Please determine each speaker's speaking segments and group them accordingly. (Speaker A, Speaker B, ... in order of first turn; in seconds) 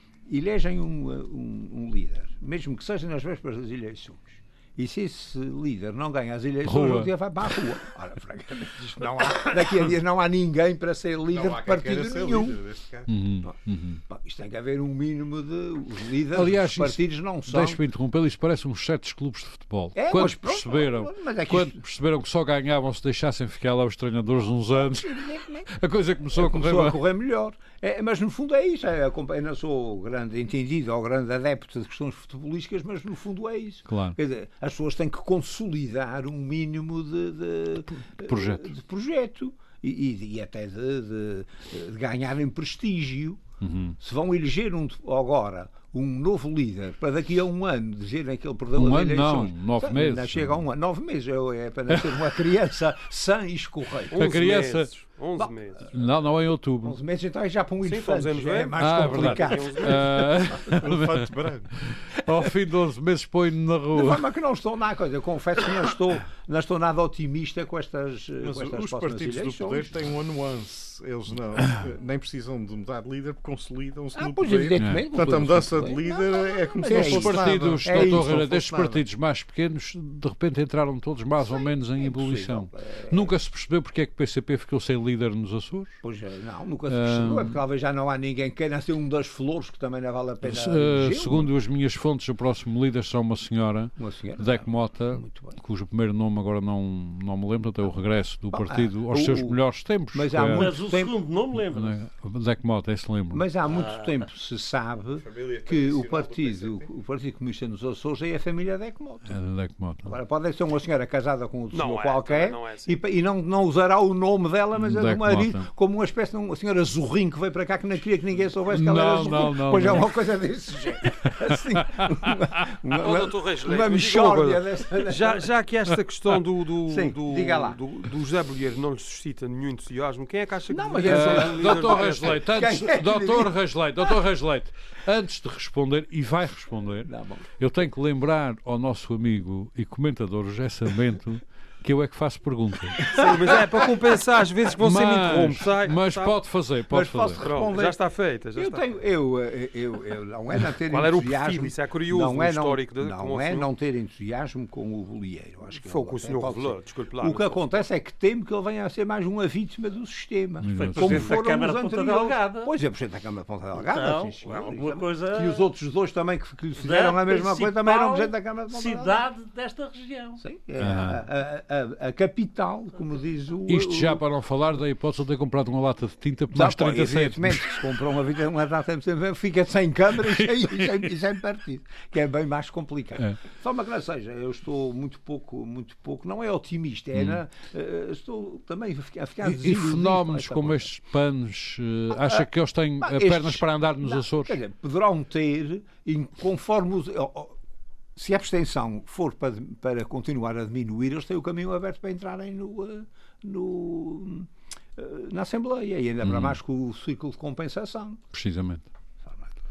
Speaker A: 0.3-12.6, 14.1-17.8, 20.0-21.8, 24.8-25.7, 26.4-43.4, 44.0-54.3, 55.4-55.9, 56.8-60.8, 63.9-69.9, 74.2-79.0, 81.4-83.3, 86.0-91.5, 94.0-95.6, 98.5-99.6, 100.1-101.1, 103.3-109.3, 110.0-125.5, 126.9-127.8, 130.7-134.1, 137.1-137.5, 143.0-143.6, 146.9-148.0, 148.6-169.2, 170.4-174.2, 176.5-190.9, 192.1-192.5, 193.0-197.6, 198.2-208.2, 209.2-209.6
Speaker B: 6.6-7.1, 13.1-14.0, 16.3-27.0, 33.9-34.2, 38.2-38.7, 43.6-44.0, 48.8-50.6, 51.9-52.4, 54.1-55.0, 55.9-57.0, 58.8-64.3, 74.8-75.1, 76.9-86.0, 86.9-87.6, 90.4-100.8, 101.6-103.5, 109.3-110.2, 114.8-115.7, 118.7-120.2, 121.7-122.3, 131.1-143.2, 144.8-147.4, 160.6-161.3, 170.8-171.2, 173.7-178.0, 180.2-181.1, 187.1-187.4, 189.4-194.6, 206.2-206.6, 208.3-208.9
Speaker C: 11.3-13.1, 60.7-61.7, 68.4-78.3, 105.2-106.9
Speaker D: 54.1-55.9, 57.8-60.1, 111.7-113.0, 122.9-132.4, 143.1-146.4, 147.4-148.8, 150.9-153.7, 155.8-157.8
Speaker E: 100.5-102.0, 103.7-104.1, 160.7-162.7, 163.8-165.7, 166.8-170.4